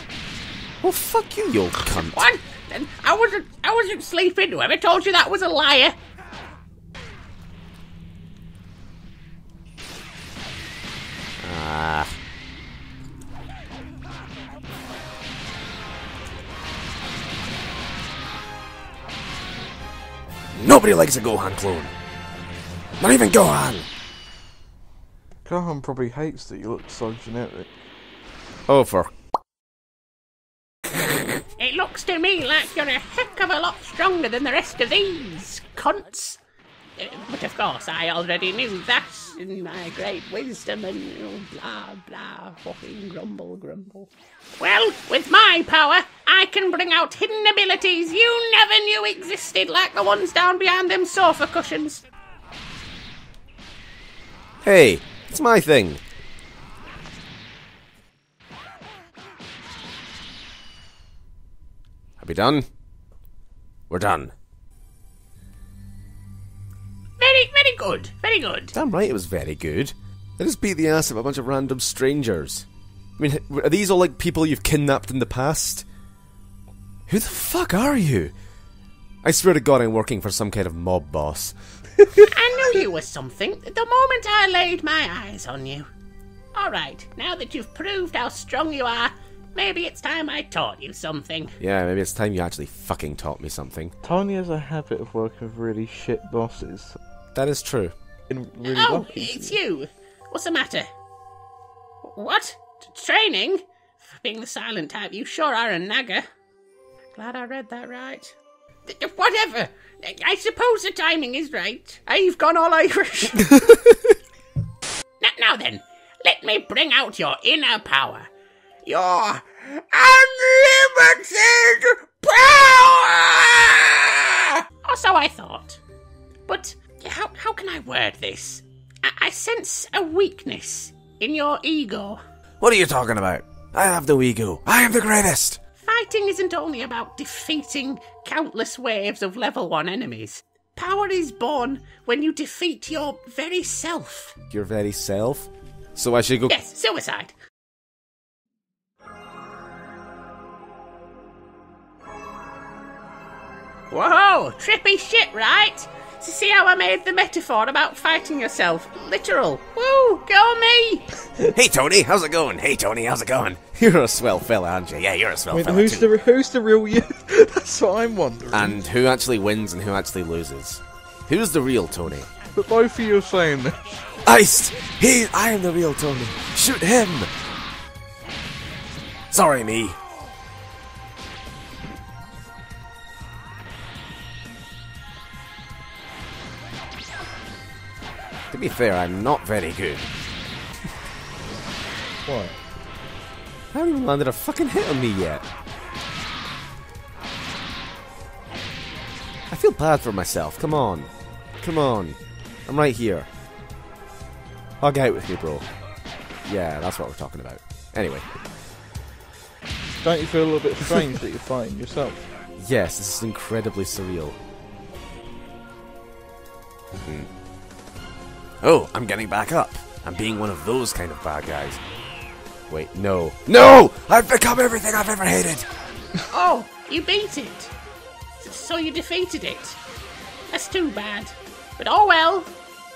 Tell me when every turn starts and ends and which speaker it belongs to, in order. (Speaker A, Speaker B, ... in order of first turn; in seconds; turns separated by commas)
Speaker A: 0.8-2.3, Speaker B: 2.1-6.0, Speaker A: 11.4-12.1, Speaker A: 20.6-21.9, Speaker A: 23.0-23.9, Speaker C: 25.4-27.7, Speaker A: 28.7-29.1, Speaker B: 31.6-36.4, Speaker B: 37.0-52.0, Speaker A: 54.6-56.0, Speaker A: 62.2-62.7, Speaker A: 63.9-64.3, Speaker B: 67.2-68.7, Speaker A: 68.7-72.7, Speaker A: 73.2-75.8, Speaker A: 77.1-78.3, Speaker A: 79.2-81.5, Speaker B: 82.3-85.9, Speaker B: 86.5-91.6, Speaker A: 91.6-93.9, Speaker C: 94.0-97.0, Speaker A: 97.3-97.9, Speaker C: 98.3-99.6, Speaker B: 98.7-100.9, Speaker B: 102.0-106.3, Speaker B: 107.2-108.3, Speaker B: 108.9-113.8, Speaker B: 115.2-118.3, Speaker B: 118.8-125.8, Speaker B: 126.5-132.2, Speaker A: 132.6-135.6, Speaker B: 135.8-144.4, Speaker A: 144.5-146.6, Speaker B: 146.5-147.3, Speaker B: 153.9-161.1, Speaker A: 161.5-166.1, Speaker C: 165.5-168.8, Speaker A: 168.5-172.3, Speaker C: 172.5-174.2, Speaker A: 174.2-177.3, Speaker A: 179.3-180.0, Speaker A: 188.5-190.1, Speaker C: 192.3-192.6, Speaker A: 193.7-195.5, Speaker A: 199.5-203.3, Speaker A: 204.8-205.7, Speaker A: 206.4-208.4, Speaker C: 210.0-212.3, Speaker A: 212.6-214.4, Speaker A: 217.0-217.3, Speaker A: 218.6-221.8, Speaker A: 222.7-225.7, Speaker B: 226.3-227.7, Speaker B: 228.4-229.8, Speaker B: 230.5-232.5